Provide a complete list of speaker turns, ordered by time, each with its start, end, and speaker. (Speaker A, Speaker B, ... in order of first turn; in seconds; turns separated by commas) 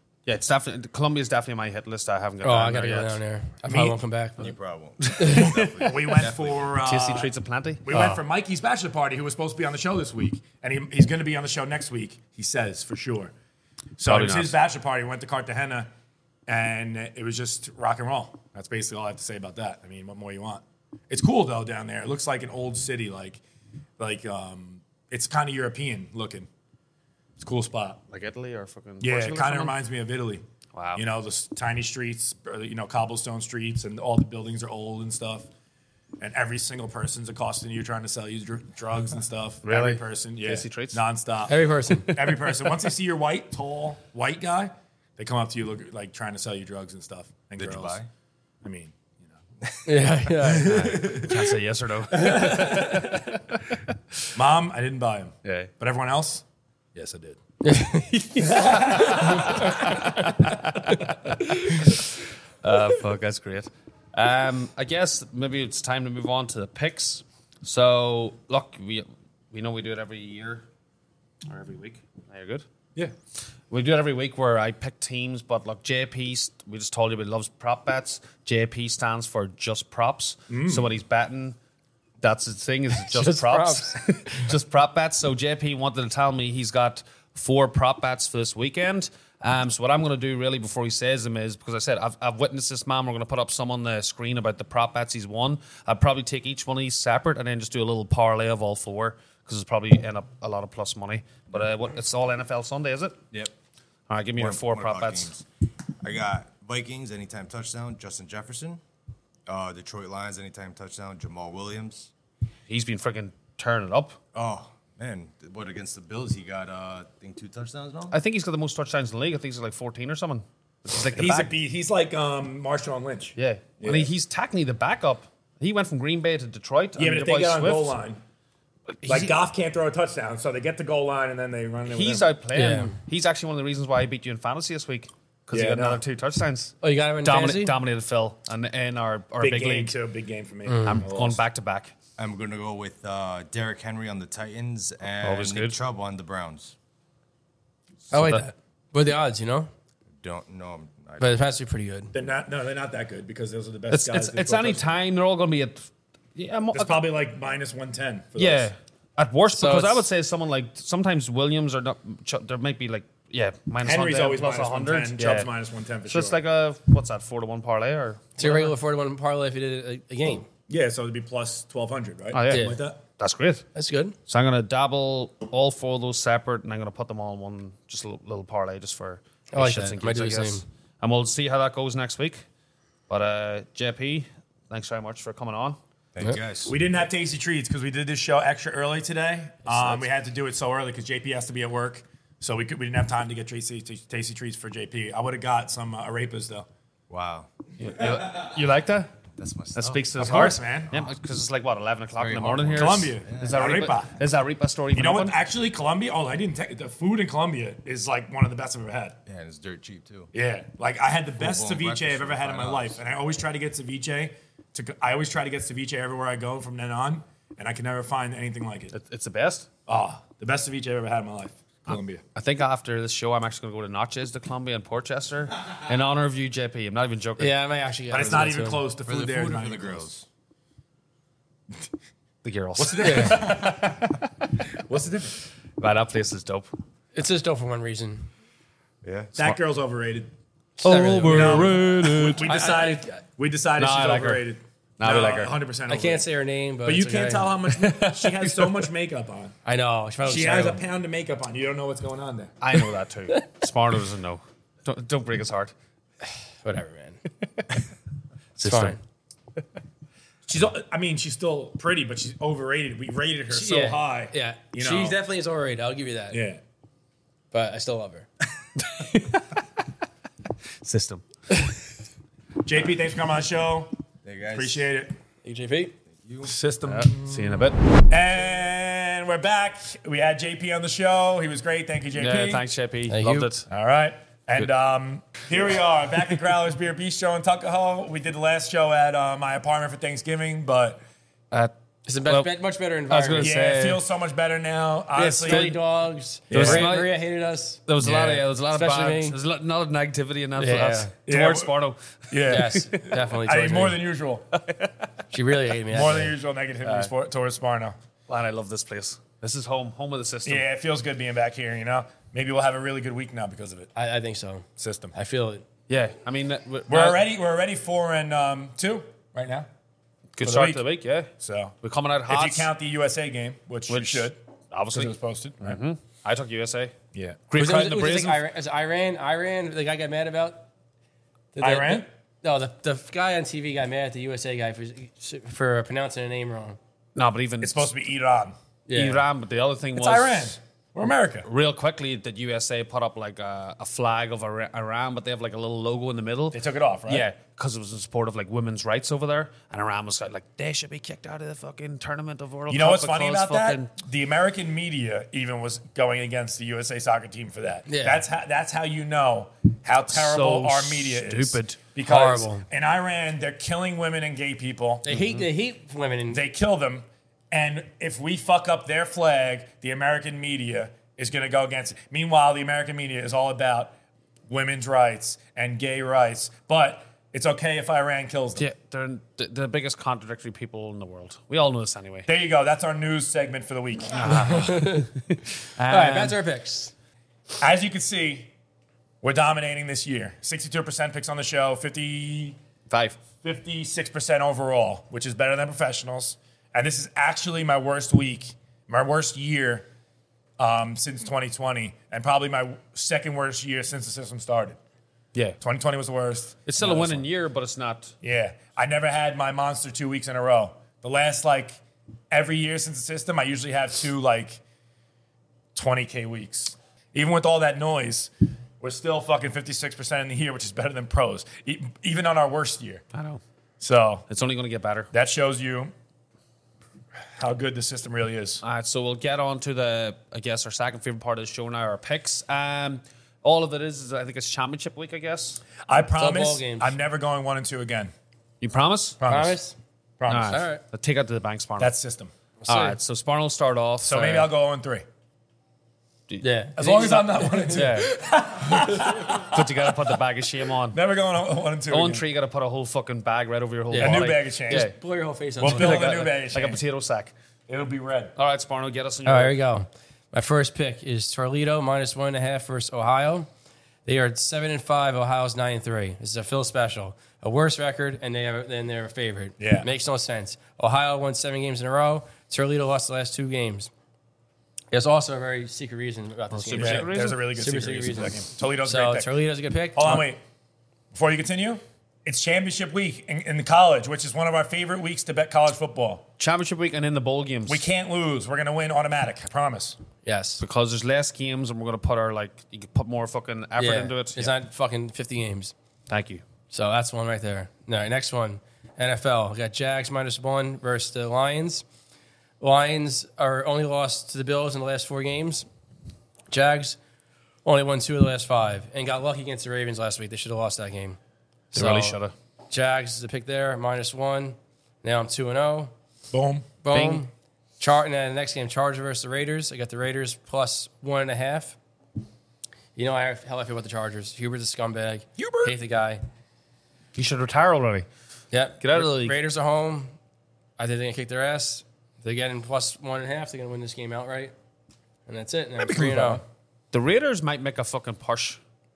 Speaker A: 0.2-3.2, Speaker B: 2.4-4.5, Speaker C: 3.7-4.0, Speaker D: 4.4-6.8, Speaker A: 5.0-8.2, Speaker B: 5.2-5.5, Speaker C: 5.8-7.3, Speaker C: 7.8-13.3, Speaker C: 14.0-15.9, Speaker A: 14.1-14.6, Speaker C: 16.5-23.4, Speaker C: 24.0-26.5, Speaker C: 27.4-28.0, Speaker A: 28.1-29.7, Speaker C: 29.0-30.4, Speaker A: 30.7-31.0, Speaker C: 30.9-35.5, Speaker C: 36.2-48.0, Speaker A: 39.6-41.0, Speaker B: 41.5-42.4, Speaker D: 47.6-48.1, Speaker C: 48.6-49.4, Speaker B: 49.8-50.8, Speaker C: 50.4-51.4, Speaker A: 50.5-53.8, Speaker C: 52.1-53.2, Speaker C: 54.3-56.4, Speaker A: 55.4-55.7, Speaker C: 56.9-57.4, Speaker B: 57.6-59.9, Speaker C: 58.4-59.8, Speaker A: 58.5-60.8, Speaker A: 61.4-62.0, Speaker A: 62.6-70.6, Speaker A: 71.5-72.6, Speaker A: 73.7-81.5, Speaker C: 80.5-80.9, Speaker A: 82.2-103.2, Speaker B: 83.0-84.0, Speaker A: 104.1-105.3, Speaker D: 104.4-105.4, Speaker D: 106.0-108.8, Speaker D: 109.5-112.1, Speaker A: 112.7-114.2, Speaker D: 114.3-118.2, Speaker A: 118.1-121.5, Speaker C: 121.1-124.1, Speaker A: 123.4-128.0, Speaker C: 127.0-128.2, Speaker A: 129.0-129.3, Speaker C: 129.0-132.3, Speaker A: 131.9-140.0, Speaker B: 132.5-132.9, Speaker C: 135.5-136.0, Speaker B: 136.8-137.8, Speaker C: 139.4-141.4, Speaker B: 140.7-141.0, Speaker A: 140.8-141.9, Speaker D: 142.2-146.7, Speaker A: 145.2-145.8, Speaker A: 148.1-148.4, Speaker B: 148.1-149.7, Speaker D: 150.2-151.4, Speaker B: 151.2-152.1, Speaker C: 152.1-154.9, Speaker A: 153.9-157.1, Speaker C: 156.7-158.7, Speaker A: 158.4-165.5, Speaker B: 159.5-160.1, Speaker C: 163.8-166.4, Speaker A: 166.1-168.7, Speaker B: 168.4-170.5, Speaker C: 170.7-173.0, Speaker A: 172.3-173.7, Speaker B: 172.5-172.8, Speaker B: 173.7-174.2, Speaker A: 174.3-182.4, Speaker B: 179.5-180.6, Speaker A: 183.1-185.8, Speaker D: 186.1-186.7, Speaker C: 186.7-196.7, Speaker A: 189.7-190.0, Speaker D: 197.1-197.5, Speaker A: 197.8-199.1, Speaker D: 199.4-201.1, Speaker A: 199.7-205.3, Speaker C: 200.2-200.9, Speaker D: 202.2-203.8, Speaker C: 202.7-204.2, Speaker C: 204.9-209.2, Speaker D: 209.2-210.3, Speaker C: 210.3-218.9, Speaker D: 211.4-213.0, Speaker A: 218.9-219.7, Speaker C: 219.9-222.2, Speaker A: 222.3-227.5, Speaker B: 227.4-228.9, Speaker C: 228.1-230.1, Speaker D: 229.0-230.2, Speaker A: 232.4-234.3, Speaker C: 232.8-234.0, Speaker B: 233.0-233.5, Speaker C: 234.9-235.3, Speaker A: 235.8-236.7, Speaker B: 237.1-238.3, Speaker D: 239.0-239.3, Speaker C: 239.3-240.3, Speaker B: 240.8-243.1, Speaker A: 240.8-242.6, Speaker C: 241.3-246.2, Speaker A: 243.8-244.5, Speaker A: 245.0-245.5, Speaker B: 245.9-248.1, Speaker C: 246.8-249.5, Speaker B: 249.6-250.8, Speaker C: 250.2-252.5, Speaker A: 252.6-255.7, Speaker B: 256.6-257.2, Speaker A: 258.6-259.0, Speaker B: 258.6-259.0, Speaker C: 260.4-265.2, Speaker B: 263.5-266.4, Speaker C: 266.3-266.6, Speaker B: 267.5-268.3, Speaker A: 268.8-269.4, Speaker A: 270.8-271.2, Speaker C: 272.6-273.9, Speaker D: 274.2-274.9, Speaker C: 274.5-275.1, Speaker B: 275.4-275.9, Speaker D: 276.2-276.5, Speaker C: 276.4-282.6, Speaker A: 276.8-277.8, Speaker A: 282.1-283.7, Speaker B: 283.1-283.5, Speaker C: 283.7-291.0, Speaker B: 292.1-293.5, Speaker A: 292.2-292.5, Speaker A: 293.1-294.0, Speaker C: 293.4-295.7, Speaker B: 295.1-297.8, Speaker A: 295.4-295.8, Speaker C: 296.5-296.9, Speaker A: 296.5-297.1, Speaker A: 297.9-303.1, Speaker C: 298.0-298.4, Speaker B: 298.7-299.4, Speaker B: 300.6-301.1, Speaker C: 301.2-301.7, Speaker C: 302.3-304.6, Speaker B: 302.5-304.0, Speaker B: 305.3-306.3, Speaker C: 305.9-307.9, Speaker A: 306.8-307.1, Speaker A: 308.3-310.6, Speaker C: 310.4-313.9, Speaker B: 313.9-315.6, Speaker C: 314.8-315.1, Speaker A: 315.9-317.2, Speaker C: 316.9-319.7, Speaker A: 320.4-321.3, Speaker C: 320.4-320.8, Speaker C: 321.4-321.8, Speaker A: 321.8-322.7, Speaker C: 322.3-324.4, Speaker A: 323.9-326.9, Speaker C: 324.9-325.8, Speaker C: 327.1-327.4, Speaker A: 327.5-328.4, Speaker B: 327.5-330.6, Speaker B: 331.5-336.8, Speaker C: 331.6-332.1, Speaker A: 337.1-337.8, Speaker C: 337.6-338.6, Speaker B: 338.9-339.2, Speaker A: 338.9-340.6, Speaker C: 339.9-341.5, Speaker A: 341.4-353.9, Speaker C: 346.5-347.2, Speaker C: 352.7-365.1, Speaker B: 357.9-358.2, Speaker A: 360.1-361.9, Speaker B: 362.1-362.6, Speaker B: 365.0-366.4, Speaker A: 365.1-365.5, Speaker C: 366.3-373.9, Speaker C: 374.5-378.6, Speaker A: 378.6-382.3, Speaker C: 382.3-384.7, Speaker A: 384.1-386.4, Speaker B: 384.2-385.1, Speaker B: 385.9-386.9, Speaker C: 387.6-388.5, Speaker C: 389.2-392.6, Speaker A: 392.9-393.2, Speaker C: 393.4-399.9, Speaker C: 400.6-404.8, Speaker C: 405.6-407.2, Speaker A: 406.6-408.1, Speaker C: 408.2-414.6, Speaker C: 415.7-423.0, Speaker A: 423.1-423.4, Speaker C: 423.8-424.2, Speaker A: 424.3-425.1, Speaker C: 425.1-425.9, Speaker C: 427.4-428.6, Speaker A: 428.6-435.6, Speaker C: 435.9-438.1, Speaker B: 436.2-436.9, Speaker A: 438.6-439.2, Speaker C: 439.2-439.6, Speaker B: 439.2-439.8, Speaker C: 440.2-440.6, Speaker A: 440.3-441.9, Speaker B: 440.5-440.8, Speaker C: 441.8-442.3, Speaker B: 442.6-442.9, Speaker A: 442.7-444.5, Speaker C: 444.0-445.0, Speaker B: 446.4-448.0, Speaker C: 446.8-449.9, Speaker A: 447.7-448.2, Speaker A: 448.8-451.0, Speaker C: 450.9-452.2, Speaker A: 451.9-454.9, Speaker B: 453.9-456.4, Speaker C: 454.0-454.9, Speaker C: 455.6-456.8, Speaker A: 455.6-457.3, Speaker C: 457.7-458.3, Speaker A: 458.4-459.6, Speaker B: 459.2-463.5, Speaker B: 464.0-473.9, Speaker C: 469.6-469.9, Speaker B: 474.9-480.3, Speaker A: 476.5-477.4, Speaker C: 476.8-479.3, Speaker C: 479.9-480.4, Speaker C: 481.1-486.2, Speaker A: 486.4-487.8, Speaker C: 487.7-490.0, Speaker B: 490.2-490.6, Speaker A: 490.6-494.5, Speaker B: 493.8-495.7, Speaker A: 496.1-496.4, Speaker B: 496.7-501.8, Speaker B: 502.6-505.7, Speaker B: 506.5-507.0, Speaker B: 507.6-511.2, Speaker A: 511.7-512.3, Speaker B: 511.7-512.2, Speaker B: 512.7-515.9, Speaker C: 516.3-516.7, Speaker B: 516.8-521.8, Speaker A: 516.9-517.2, Speaker B: 523.0-526.2, Speaker C: 525.4-525.7, Speaker A: 527.1-528.1, Speaker B: 528.5-530.1, Speaker A: 528.8-529.4, Speaker B: 530.8-534.5, Speaker B: 535.2-536.4, Speaker C: 535.8-536.4, Speaker A: 536.9-538.6